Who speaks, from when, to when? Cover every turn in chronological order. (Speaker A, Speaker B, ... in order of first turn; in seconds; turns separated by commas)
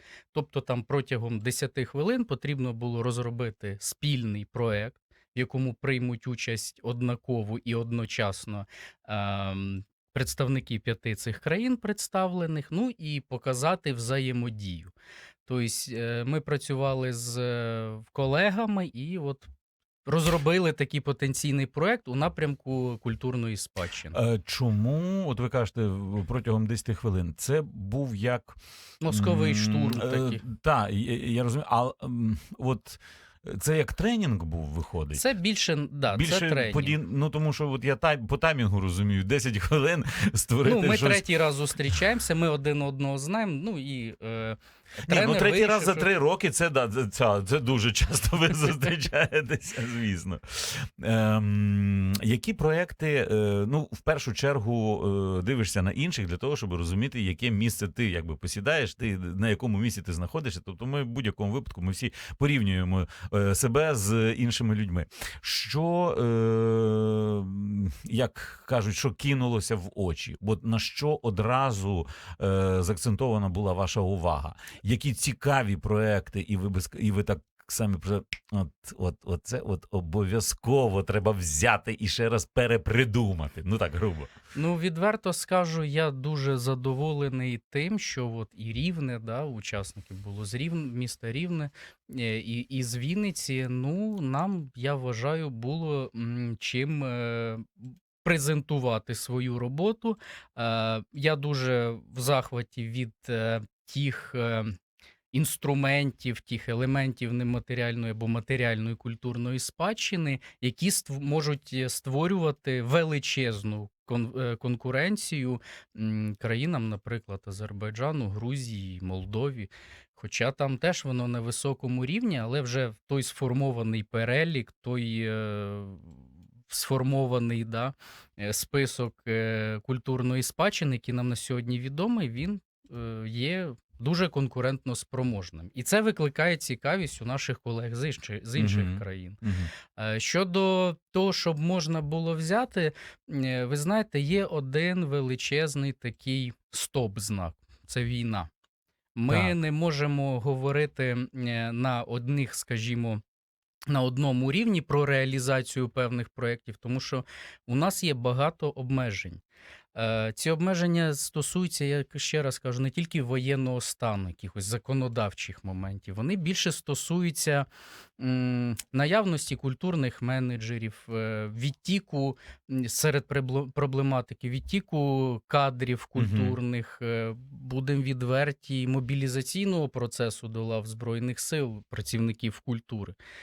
Speaker A: 0.3-14.9, Speaker A: 15.5-19.5, Speaker A: 20.1-24.2, Speaker B: 24.1-35.2, Speaker A: 29.0-30.4, Speaker A: 35.1-37.0, Speaker B: 36.1-41.3, Speaker A: 40.6-46.1, Speaker B: 45.0-84.3, Speaker A: 84.5-104.7, Speaker A: 105.3-126.2, Speaker A: 126.7-139.4, Speaker B: 138.6-139.7, Speaker A: 140.0-148.5, Speaker A: 149.2-153.2, Speaker B: 149.3-149.6, Speaker A: 153.9-159.4, Speaker A: 159.9-167.7, Speaker A: 168.2-183.2, Speaker B: 176.2-176.6